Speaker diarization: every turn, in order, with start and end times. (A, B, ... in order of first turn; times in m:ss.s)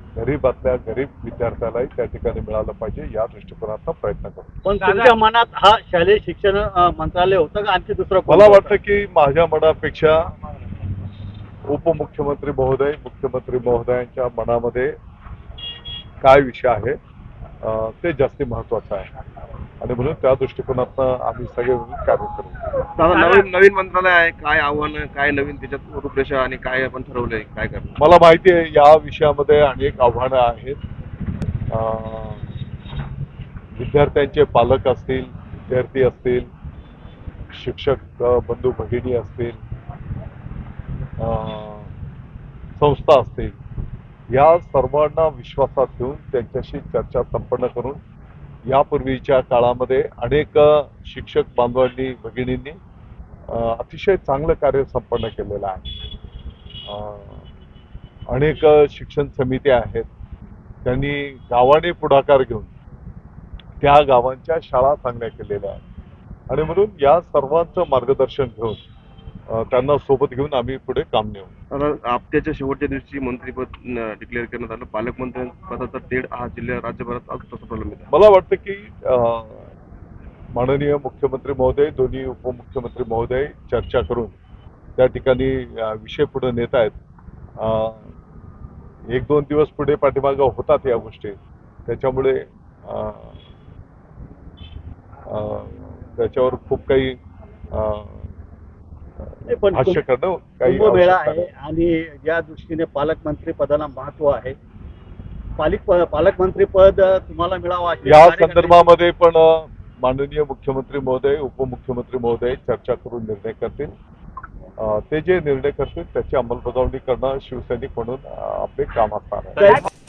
0:00.2-0:04.5 A
0:04.6-0:08.8 B
0:08.3-0:10.2 A
0:11.7-0:14.9 A
0:16.2-0:17.0 A
0:17.6-0:19.1 A
0:19.8-0:22.6 A
0:22.9-0:28.0 C
0:28.0-0:30.8 A
0:31.7-0:32.4 A
0:33.8-0:36.4 A
0:37.5-0:39.6 A
0:41.2-0:41.9 A
0:42.8-0:43.5 A
0:44.3-0:48.0 A
0:48.7-0:52.8 A
0:53.5-0:55.8 A
0:56.9-0:57.4 A
0:58.3-1:00.1 A
1:00.8-1:02.7 A
1:03.8-1:05.8 A
1:06.5-1:08.8 A
1:09.5-1:11.5 A
1:11.7-1:18.1 C
1:18.1-1:19.6 A
1:20.5-1:24.3 A
1:25.0-1:27.0 A
1:27.6-1:28.0 A
1:29.1-1:33.3 A
1:35.3-1:37.2 A
1:37.7-1:38.2 A
1:39.5-1:40.0 B
1:39.7-1:41.5 A
1:40.6-1:44.6 B
1:45.6-1:48.9 B
1:48.0-1:53.9 A
1:54.8-1:59.7 A
1:59.6-1:59.9 B